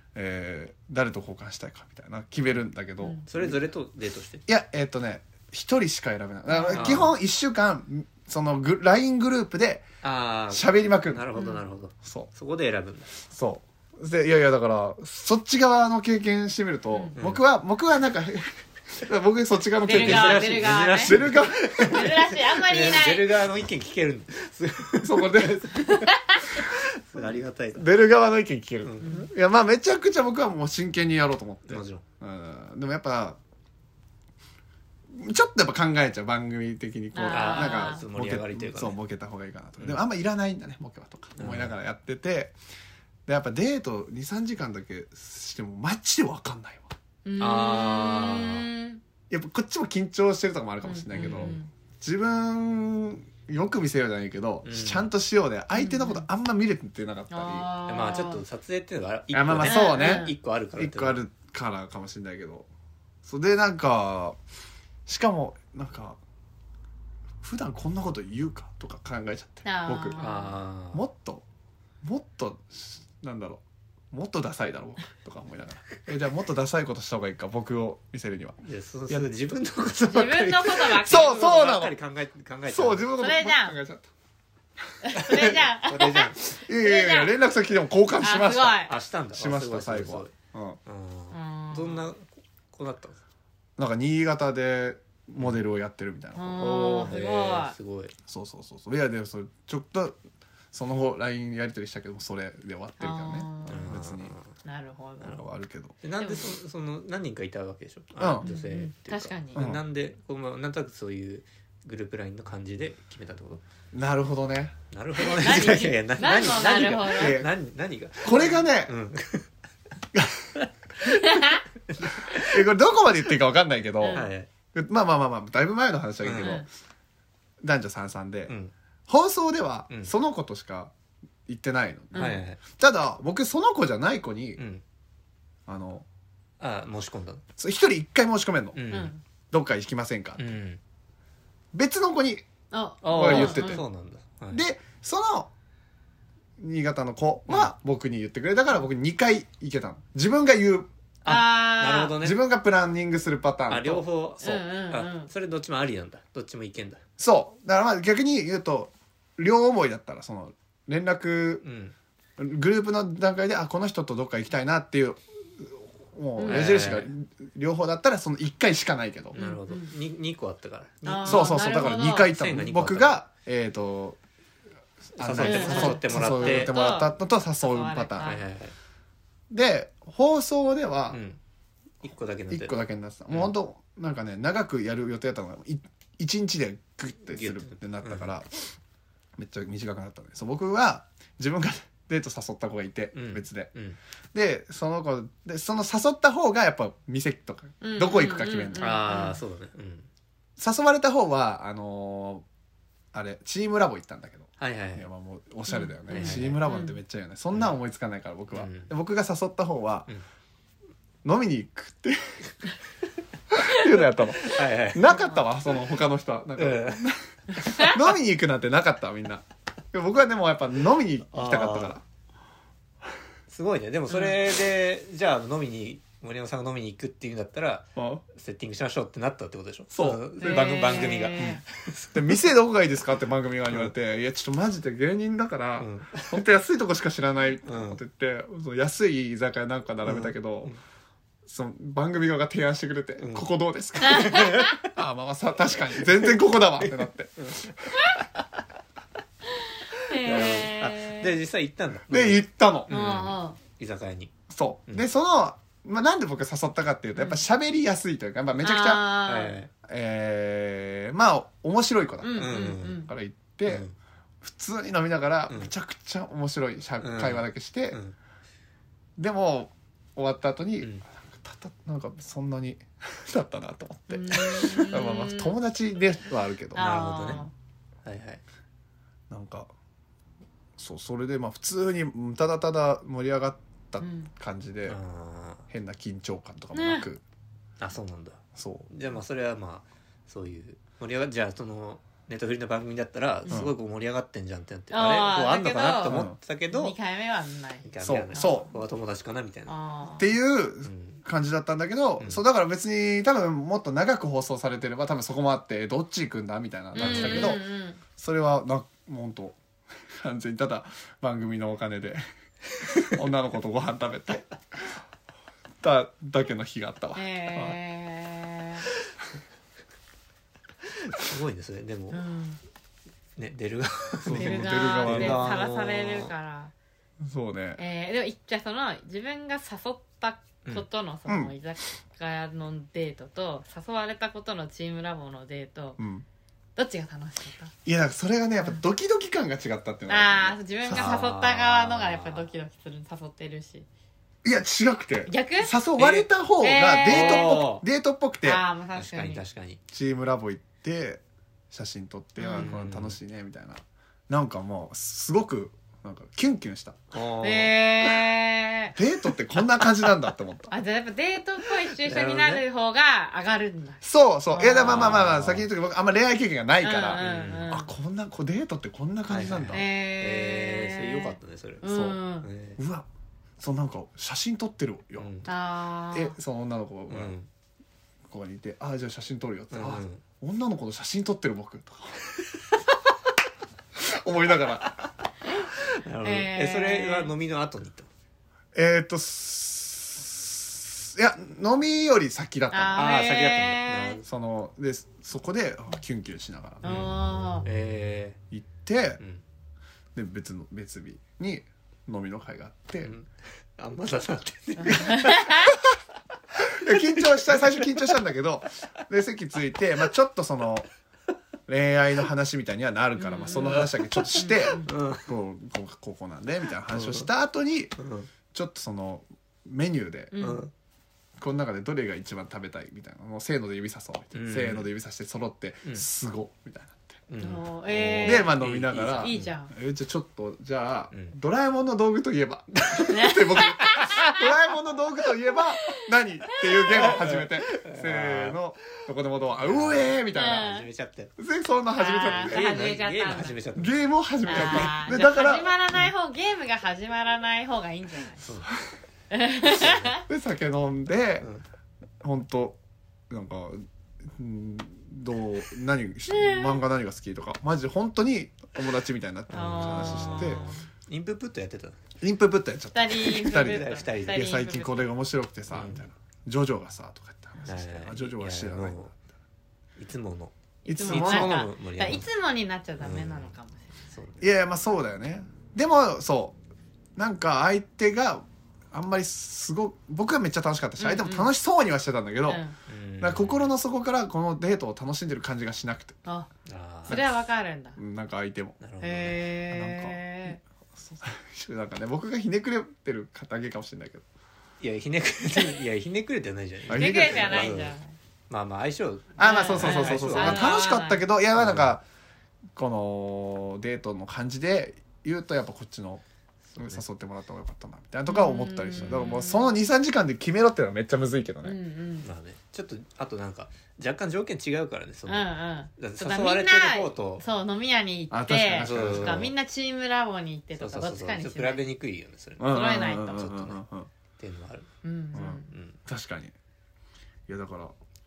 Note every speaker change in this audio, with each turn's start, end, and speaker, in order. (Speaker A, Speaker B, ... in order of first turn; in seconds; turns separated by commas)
Speaker A: 0.1-3.6, Speaker B: 3.0-3.2, Speaker C: 3.3-4.4, Speaker A: 4.5-9.9, Speaker B: 6.5-7.0, Speaker C: 6.7-7.1, Speaker C: 10.0-13.2, Speaker A: 10.5-11.3, Speaker B: 11.3-11.6, Speaker A: 12.0-12.3, Speaker A: 13.3-22.2, Speaker C: 17.2-17.4, Speaker B: 19.8-21.2, Speaker C: 19.9-27.9, Speaker B: 21.8-23.4, Speaker A: 25.0-25.9, Speaker B: 25.8-26.4, Speaker A: 27.8-33.4, Speaker C: 28.8-29.3, Speaker B: 29.0-29.3, Speaker C: 31.7-32.0, Speaker A: 35.1-42.5, Speaker B: 37.1-38.0, Speaker C: 37.3-39.0, Speaker C: 41.4-41.7, Speaker A: 43.3-46.9, Speaker B: 47.2-49.0, Speaker C: 47.4-48.7, Speaker A: 49.3-57.7, Speaker B: 50.8-51.7, Speaker C: 51.1-51.6, Speaker C: 54.6-55.1, Speaker B: 55.7-56.2, Speaker B: 57.3-58.4, Speaker C: 57.9-61.2, Speaker A: 59.3-62.7, Speaker B: 59.6-60.3, Speaker A: 63.2-64.4, Speaker A: 65.1-66.2, Speaker A: 67.4-70.2, Speaker B: 69.7-70.5, Speaker C: 70.2-71.0, Speaker A: 70.9-71.4, Speaker A: 72.0-78.6, Speaker C: 78.6-83.1, Speaker B: 80.1-81.6, Speaker A: 81.0-81.9, Speaker A: 82.7-84.1, Speaker B: 83.2-83.8, Speaker B: 85.0-87.4, Speaker C: 85.2-86.5, Speaker A: 86.5-88.8, Speaker B: 88.2-88.9, Speaker C: 88.9-90.3, Speaker A: 89.3-90.8, Speaker C: 90.9-93.2, Speaker B: 91.3-92.1, Speaker A: 93.8-97.2, Speaker B: 96.4-97.8, Speaker C: 96.6-98.1, Speaker A: 98.3-100.2, Speaker A: 100.7-104.4, Speaker B: 103.0-104.0, Speaker C: 103.7-104.5, Speaker B: 104.7-105.4, Speaker A: 105.2-106.0, Speaker C: 106.0-113.6, Speaker B: 106.2-106.5, Speaker A: 108.2-108.5, Speaker B: 108.4-109.6, Speaker A: 109.5-109.8, Speaker A: 113.9-114.8, Speaker C: 114.9-119.5, Speaker B: 115.2-117.4, Speaker A: 117.0-117.5, Speaker A: 118.2-118.9, Speaker A: 120.1-120.5, Speaker B: 121.0-121.6, Speaker C: 121.9-122.7, Speaker A: 122.3-126.7, Speaker B: 124.0-124.3, Speaker C: 124.1-124.5, Speaker C: 126.2-126.6, Speaker B: 126.4-126.7, Speaker A: 127.6-128.5, Speaker C: 128.5-128.7, Speaker A: 129.1-130.9, Speaker A: 131.5-134.6, Speaker B: 132.1-132.4, Speaker C: 132.2-132.6, Speaker C: 134.6-134.8, Speaker A: 135.7-136.1, Speaker C: 136.6-137.4, Speaker A: 137.6-138.8, Speaker C: 138.8-139.1, Speaker B: 138.9-139.2, Speaker A: 139.5-140.5, Speaker C: 140.4-140.8, Speaker A: 141.7-142.4, Speaker B: 142.7-143.8, Speaker C: 143.0-144.6, Speaker A: 143.1-143.8, Speaker A: 144.5-145.5, Speaker A: 146.6-150.9, Speaker C: 151.2-152.4, Speaker B: 151.2-152.2, Speaker A: 152.2-154.1, Speaker C: 153.7-157.0, Speaker B: 154.4-155.3, Speaker A: 157.2-161.6, Speaker C: 161.6-161.9, Speaker A: 162.4-169.4, Speaker B: 166.4-166.7, Speaker C: 166.5-167.1, Speaker C: 169.3-173.2, Speaker B: 169.3-169.9, Speaker B: 171.1-172.3, Speaker A: 171.3-174.2, Speaker A: 175.2-178.3, Speaker C: 175.2-176.7, Speaker B: 175.4-178.4, Speaker C: 178.2-178.8, Speaker A: 179.5-181.2, Speaker C: 181.1-181.4, Speaker C: 182.0-182.8, Speaker A: 182.5-188.7, Speaker C: 187.3-188.3, Speaker A: 189.4-193.7, Speaker C: 193.1-194.0, Speaker A: 194.3-199.0, Speaker B: 197.8-199.4, Speaker C: 198.8-200.1, Speaker A: 200.6-202.4, Speaker A: 203.1-210.1, Speaker C: 204.6-205.1, Speaker B: 205.7-207.0, Speaker C: 206.1-206.6, Speaker C: 208.5-208.9, Speaker A: 211.2-212.2, Speaker A: 213.5-222.0, Speaker C: 214.4-215.1, Speaker B: 215.1-215.4, Speaker C: 216.6-217.1, Speaker B: 217.6-217.9, Speaker C: 221.3-222.0, Speaker C: 223.5-232.4, Speaker B: 224.1-224.4, Speaker A: 228.0-228.2, Speaker A: 229.9-231.6, Speaker B: 230.4-231.6, Speaker A: 232.1-240.7, Speaker C: 235.8-236.5, Speaker C: 237.7-238.0, Speaker C: 240.1-240.8, Speaker A: 241.5-247.9, Speaker C: 243.2-243.5, Speaker C: 244.0-244.9, Speaker B: 244.1-244.6, Speaker C: 245.9-248.6, Speaker B: 250.1-251.3, Speaker C: 250.1-254.3, Speaker A: 252.1-252.9, Speaker B: 252.9-253.6, Speaker A: 254.5-259.2, Speaker B: 257.2-257.4, Speaker B: 258.6-259.6, Speaker C: 259.3-259.7, Speaker A: 259.8-263.9, Speaker B: 262.2-263.1, Speaker C: 262.4-263.0, Speaker C: 263.7-263.9, Speaker A: 264.4-268.0, Speaker C: 267.0-268.1, Speaker A: 269.2-277.4, Speaker B: 274.1-275.6, Speaker B: 276.7-277.5, Speaker C: 276.8-277.4, Speaker C: 278.1-278.4, Speaker A: 279.3-279.7, Speaker A: 280.8-285.0, Speaker B: 284.0-284.3, Speaker C: 284.9-285.6, Speaker A: 285.7-287.2, Speaker B: 286.7-287.1, Speaker C: 287.8-297.0, Speaker A: 288.6-288.9, Speaker A: 293.5-293.8, Speaker B: 294.9-298.7, Speaker A: 296.1-296.4, Speaker C: 297.9-299.7, Speaker A: 298.0-298.7, Speaker B: 299.7-300.3, Speaker A: 300.2-307.6, Speaker C: 300.9-301.2, Speaker B: 306.9-308.0, Speaker C: 307.0-307.6, Speaker A: 308.2-309.6, Speaker A: 310.1-312.2, Speaker A: 313.1-314.5, Speaker A: 315.8-317.8, Speaker B: 317.1-318.9, Speaker C: 321.0-322.2, Speaker B: 322.1-322.6, Speaker C: 323.4-326.3, Speaker A: 324.2-325.5, Speaker B: 324.3-326.7, Speaker A: 327.2-327.8, Speaker B: 327.8-336.0, Speaker A: 331.3-331.5, Speaker A: 336.0-336.3, Speaker B: 336.8-337.7, Speaker A: 337.9-341.2, Speaker B: 340.1-343.9, Speaker C: 340.9-342.5, Speaker A: 344.4-348.6, Speaker B: 345.3-345.8, Speaker C: 346.0-346.3, Speaker B: 346.6-347.8, Speaker C: 347.1-347.8, Speaker B: 348.4-349.4, Speaker C: 348.9-349.8, Speaker A: 349.9-357.0, Speaker B: 352.4-352.7, Speaker C: 352.5-353.2, Speaker C: 357.1-358.1, Speaker B: 357.4-358.9, Speaker A: 359.0-360.7, Speaker B: 360.7-365.2, Speaker C: 362.0-362.6, Speaker A: 364.0-369.9, Speaker C: 364.8-365.7, Speaker B: 366.8-367.9, Speaker C: 367.2-367.7, Speaker C: 369.3-372.8, Speaker B: 369.7-372.5, Speaker A: 371.9-372.2, Speaker A: 372.8-373.1, Speaker A: 373.6-375.5, Speaker C: 375.2-375.5, Speaker B: 375.5-376.4, Speaker A: 376.1-377.3, Speaker C: 377.1-377.5, Speaker A: 378.3-382.2, Speaker C: 379.7-380.2, Speaker A: 384.0-385.1, Speaker C: 385.8-388.1, Speaker B: 386.2-387.3, Speaker A: 388.7-393.1, Speaker B: 392.7-394.2, Speaker C: 392.9-394.3, Speaker A: 394.2-396.8, Speaker B: 396.8-397.7, Speaker C: 396.8-398.4, Speaker A: 398.5-399.2, Speaker A: 400.1-403.1, Speaker C: 403.0-405.8, Speaker B: 404.8-405.8, Speaker A: 406.6-410.9, Speaker C: 406.9-407.9, Speaker A: 411.7-418.0, Speaker B: 413.2-413.9, Speaker C: 413.5-415.3, Speaker B: 414.4-414.9, Speaker C: 416.9-417.3, Speaker C: 418.0-418.3, Speaker A: 418.5-420.3, Speaker B: 420.3-420.7, Speaker C: 420.4-420.7, Speaker A: 421.4-427.2, Speaker C: 424.3-424.9, Speaker C: 427.3-429.5, Speaker B: 427.4-428.6, Speaker A: 428.2-440.7, Speaker B: 429.2-429.7, Speaker C: 431.1-431.4, Speaker B: 433.1-434.4, Speaker C: 436.9-438.6, Speaker C: 439.6-441.3, Speaker B: 440.4-440.9, Speaker A: 441.4-442.6, Speaker B: 442.0-443.6, Speaker C: 442.3-444.0, Speaker A: 443.8-445.8, Speaker B: 444.5-448.4, Speaker C: 444.5-445.0, Speaker C: 448.4-448.7, Speaker B: 449.3-450.2, Speaker C: 449.7-450.2, Speaker A: 450.3-451.5, Speaker A: 452.2-452.8, Speaker A: 453.3-460.6, Speaker B: 456.3-456.8, Speaker C: 459.5-462.0, Speaker B: 459.5-460.8, Speaker A: 462.2-469.1, Speaker B: 462.9-464.9, Speaker C: 463.4-464.5, Speaker C: 465.7-466.0, Speaker C: 467.7-469.1, Speaker C: 470.0-472.3, Speaker A: 470.9-471.5, Speaker B: 470.9-474.0, Speaker C: 473.0-473.5, Speaker C: 474.1-474.5, Speaker A: 474.4-476.6, Speaker A: 477.2-482.6, Speaker B: 481.0-481.5, Speaker B: 482.5-482.8, Speaker C: 482.9-483.7, Speaker A: 483.2-486.2, Speaker C: 486.7-487.2, Speaker B: 487.1-488.0, Speaker A: 487.1-487.3, Speaker A: 488.0-488.8, Speaker C: 488.8-489.5, Speaker B: 489.0-490.6, Speaker A: 489.7-494.2, Speaker C: 494.8-498.0, Speaker A: 496.9-497.8, Speaker B: 496.9-498.1, Speaker C: 498.5-500.8, Speaker A: 499.4-502.0, Speaker B: 499.4-501.2, Speaker C: 501.6-501.9, Speaker A: 502.8-506.2, Speaker C: 506.7-507.0, Speaker A: 506.8-511.8, Speaker B: 508.3-509.8, Speaker B: 511.6-512.3, Speaker C: 512.2-517.4, Speaker B: 515.3-521.8, Speaker A: 518.3-519.5, Speaker C: 518.8-519.5, Speaker C: 520.8-523.8, Speaker A: 522.6-524.1, Speaker B: 522.7-523.7, Speaker C: 524.4-524.9, Speaker B: 525.0-525.7, Speaker A: 525.4-526.5, Speaker C: 525.5-526.0, Speaker A: 527.5-527.9